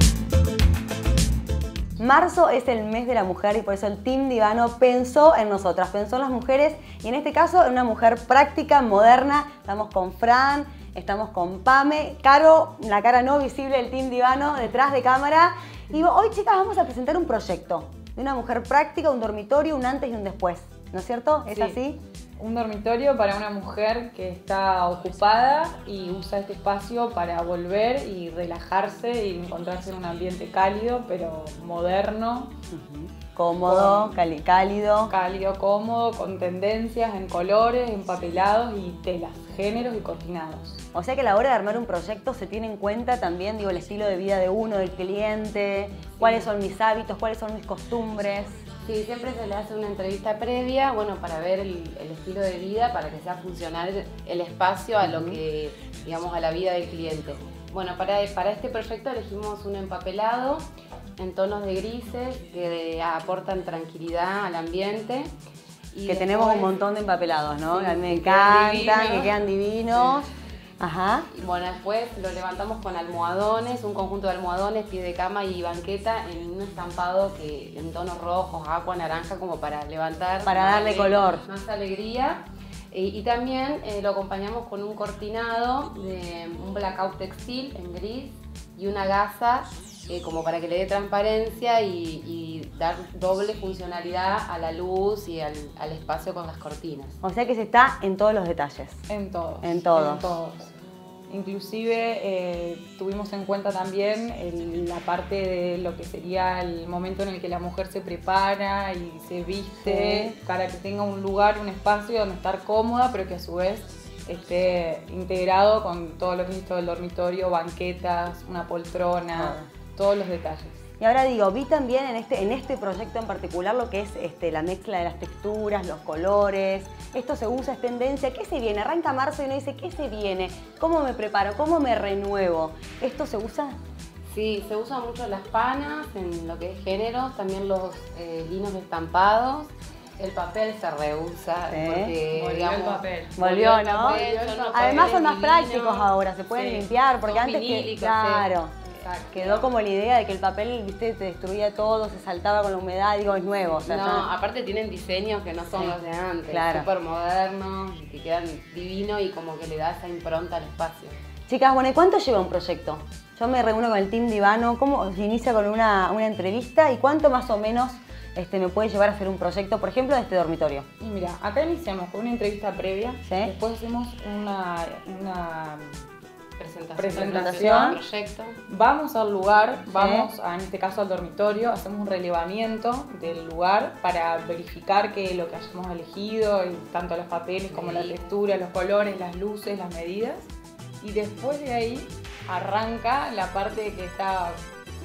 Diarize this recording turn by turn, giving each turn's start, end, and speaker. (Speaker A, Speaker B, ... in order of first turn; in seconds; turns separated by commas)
Speaker A: 2.0-22.0, Speaker B: 21.5-21.8, Speaker B: 22.4-32.5, Speaker A: 32.7-35.1, Speaker B: 33.6-34.2, Speaker B: 35.1-40.8, Speaker A: 40.9-48.6, Speaker C: 48.9-60.6, Speaker A: 55.0-55.4, Speaker C: 61.2-65.3, Speaker C: 65.9-66.8, Speaker A: 66.1-70.3, Speaker C: 67.7-69.3, Speaker C: 69.9-70.2, Speaker A: 70.8-71.3, Speaker C: 71.3-97.2, Speaker A: 80.5-81.4, Speaker A: 97.2-99.0, Speaker B: 99.1-100.7, Speaker A: 99.6-100.4, Speaker B: 101.3-120.8, Speaker A: 109.8-110.3, Speaker A: 119.4-119.7, Speaker A: 121.0-133.8, Speaker C: 134.3-149.7, Speaker A: 141.7-142.2, Speaker B: 142.3-143.4, Speaker A: 143.4-154.3, Speaker B: 144.1-145.1, Speaker C: 153.9-161.2, Speaker A: 156.5-156.9, Speaker A: 161.5-170.9, Speaker B: 171.0-176.0, Speaker A: 173.3-173.5, Speaker C: 176.6-178.6, Speaker B: 177.0-178.0, Speaker A: 177.2-178.0, Speaker B: 178.7-190.5, Speaker A: 179.9-180.3, Speaker C: 187.7-188.2, Speaker B: 191.0-194.6